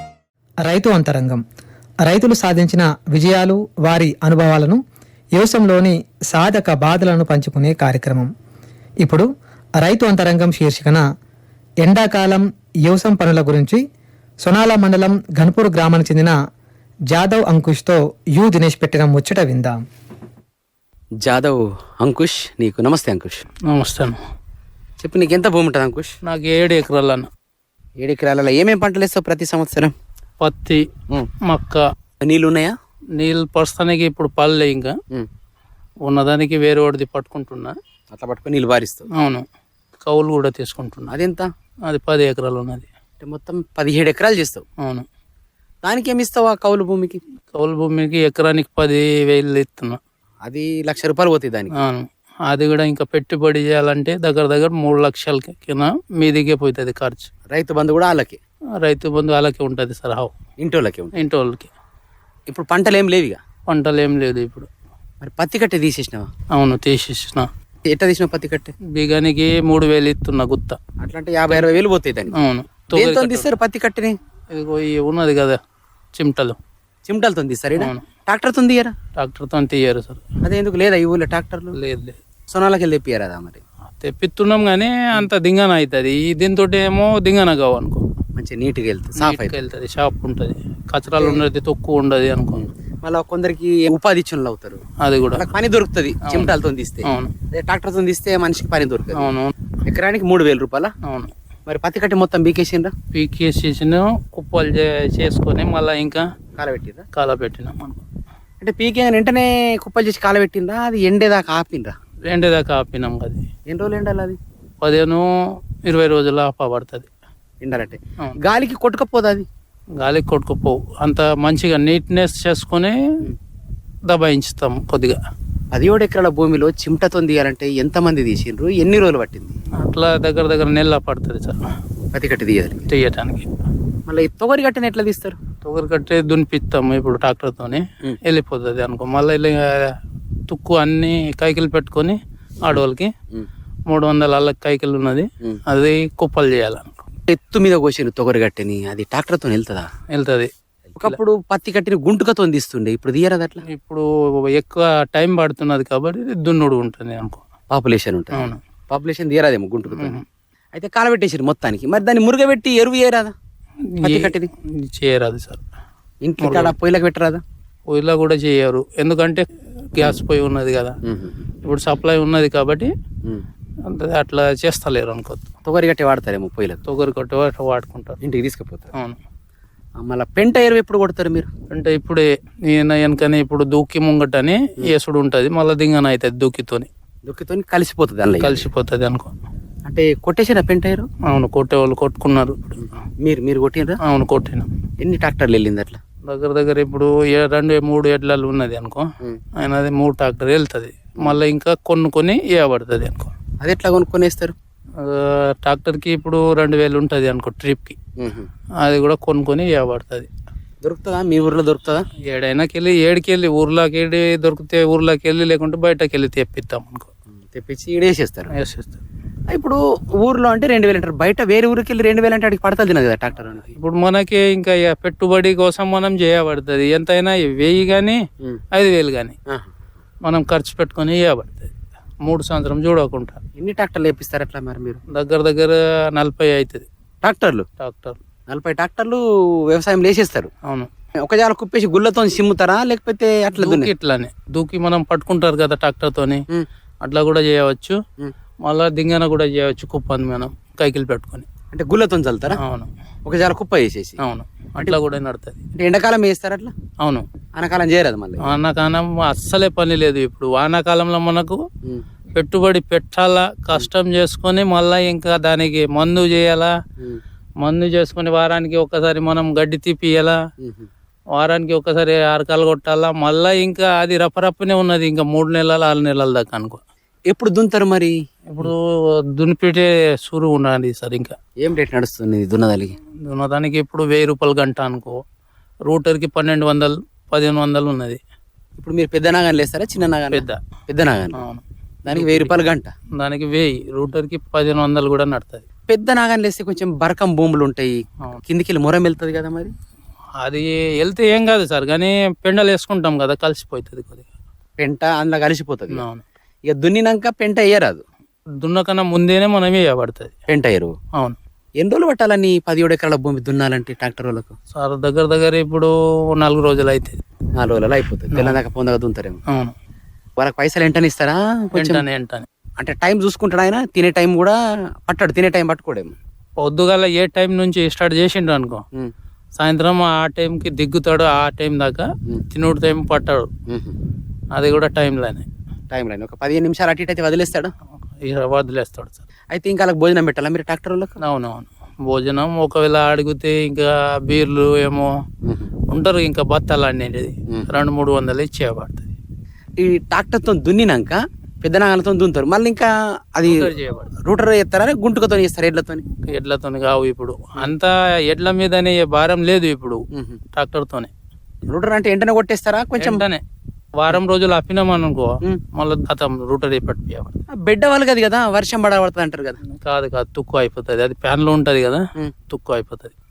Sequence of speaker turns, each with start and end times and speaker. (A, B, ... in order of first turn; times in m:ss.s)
0:00.6-0:01.4 A
0:02.0-0:04.8 A
0:05.3-0:08.3 A
0:09.8-0:11.0 A
0:11.8-0:13.8 A
0:14.4-0:16.3 A
0:17.1-0:19.8 A
0:21.2-0:23.4 B
0:23.7-0:24.2 C
0:25.0-0:26.1 B
0:26.2-0:27.3 C
0:28.0-0:29.9 B
0:30.4-0:30.8 C
0:31.4-0:31.8 C
0:32.2-0:32.7 B
0:33.2-0:34.9 C
0:36.0-0:37.8 C
0:38.1-0:39.1 B
0:39.1-0:39.4 C
0:40.0-0:41.1 C
0:41.1-0:41.5 B
0:41.9-0:42.9 C
0:43.2-0:44.6 B
0:44.8-0:45.0 C
0:45.8-0:47.2 B
0:47.5-0:50.0 C
0:50.4-0:51.7 B
0:51.7-0:57.3 C
0:57.5-0:58.4 B
0:58.8-1:00.3 C
1:00.6-1:01.2 B
1:01.2-1:01.7 C
1:02.5-1:03.4 B
1:03.7-1:04.7 C
1:05.2-1:06.3 B
1:06.5-1:07.5 C
1:07.9-1:08.7 B
1:08.9-1:10.8 C
1:11.0-1:12.3 B
1:12.3-1:13.5 C
1:12.9-1:14.2 B
1:14.5-1:15.6 C
1:16.1-1:16.6 C
1:17.0-1:18.9 B
1:17.8-1:18.0 C
1:19.2-1:20.2 C
1:20.4-1:21.8 B
1:21.7-1:22.2 C
1:22.5-1:23.6 B
1:24.0-1:28.0 C
1:28.4-1:29.6 B
1:29.2-1:32.6 C
1:31.2-1:31.4 B
1:32.6-1:34.8 B
1:35.0-1:35.5 C
1:35.3-1:39.3 B
1:36.2-1:36.5 C
1:37.0-1:37.3 C
1:39.1-1:39.5 C
1:39.8-1:40.9 B
1:41.0-1:41.3 C
1:41.7-1:42.9 B
1:43.1-1:46.2 C
1:46.6-1:47.0 B
1:47.1-1:48.0 C
1:48.6-1:51.9 B
1:52.2-1:53.4 C
1:53.7-1:54.4 B
1:54.8-1:55.2 C
1:55.8-1:57.1 C
1:57.6-1:59.4 B
2:00.0-2:03.0 C
2:04.1-2:05.2 C
2:05.7-2:09.5 B
2:09.8-2:11.6 C
2:12.1-2:12.8 B
2:12.8-2:13.5 C
2:14.1-2:15.4 B
2:15.6-2:19.9 C
2:20.5-2:23.1 C
2:23.9-2:27.0 C
2:27.3-2:29.9 B
2:30.1-2:31.2 C
2:31.0-2:33.6 B
2:33.7-2:37.4 C
2:37.7-2:40.2 B
2:38.3-2:38.6 C
2:39.9-2:40.2 C
2:40.7-2:43.3 B
2:43.9-2:45.6 C
2:44.0-2:44.5 B
2:46.2-2:47.4 B
2:46.4-2:46.7 C
2:47.9-2:50.9 C
2:51.0-2:51.4 B
2:51.6-2:52.9 C
2:53.8-2:55.5 C
2:55.6-2:56.8 B
2:56.9-2:58.2 C
2:58.2-2:58.9 B
2:58.9-2:59.2 C
3:00.0-3:01.5 B
3:01.7-3:06.9 C
3:07.2-3:08.6 B
3:08.4-3:09.3 C
3:09.8-3:11.1 B
3:11.2-3:12.9 C
3:12.8-3:14.0 B
3:14.0-3:14.7 C
3:15.0-3:16.0 B
3:16.2-3:19.0 C
3:19.6-3:23.3 C
3:23.6-3:24.5 B
3:25.0-3:28.0 C
3:28.2-3:28.5 B
3:28.8-3:30.3 C
3:30.8-3:32.0 B
3:32.3-3:37.1 C
3:37.5-3:38.5 B
3:38.5-3:39.0 C
3:39.5-3:43.7 B
3:43.7-3:48.2 C
3:48.7-3:49.4 C
3:50.2-3:51.7 C
3:52.2-3:53.4 C
3:53.6-3:55.0 B
3:55.1-3:56.8 C
3:57.2-3:57.6 B
3:57.8-3:58.2 C
3:58.5-4:00.5 B
4:00.6-4:00.9 C
4:01.2-4:03.9 B
4:03.6-4:06.4 C
4:07.0-4:08.0 C
4:08.6-4:11.5 C
4:11.7-4:12.6 B
4:12.6-4:12.9 C
4:13.2-4:14.2 B
4:14.2-4:15.6 C
4:15.8-4:16.7 B
4:17.5-4:18.6 B
4:18.4-4:21.6 C
4:22.3-4:26.7 C
4:27.6-4:30.4 C
4:30.6-4:30.9 B
4:31.3-4:36.8 C
4:37.3-4:38.7 B
4:38.5-4:41.3 C
4:41.6-4:42.9 B
4:43.2-4:45.2 C
4:45.9-4:48.2 C
4:48.8-4:51.4 B
4:50.3-4:50.6 C
4:51.3-4:52.6 C
4:52.0-4:52.9 B
4:53.2-4:55.6 C
4:55.9-4:59.7 B
5:00.4-5:04.3 C
5:04.8-5:06.0 B
5:05.9-5:06.2 C
5:06.6-5:08.0 B
5:08.6-5:10.3 C
5:10.5-5:10.9 B
5:11.8-5:14.5 B
5:14.7-5:17.2 C
5:17.6-5:19.4 B
5:19.5-5:19.7 C
5:20.4-5:22.0 B
5:21.8-5:22.4 C
5:22.8-5:26.1 B
5:26.6-5:28.8 C
5:29.6-5:33.5 C
5:33.7-5:34.0 B
5:34.5-5:35.5 C
5:35.9-5:37.7 B
5:38.0-5:39.2 C
5:39.5-5:41.2 B
5:41.2-5:45.1 C
5:45.9-5:49.1 C
5:49.8-5:53.7 B
5:53.4-5:54.1 C
5:54.2-5:56.0 B
5:56.2-6:00.0 C
6:00.1-6:00.4 B
6:00.5-6:01.1 C
6:01.7-6:03.2 B
6:03.0-6:03.4 C
6:04.0-6:07.4 C
6:07.6-6:09.6 B
6:09.7-6:13.1 C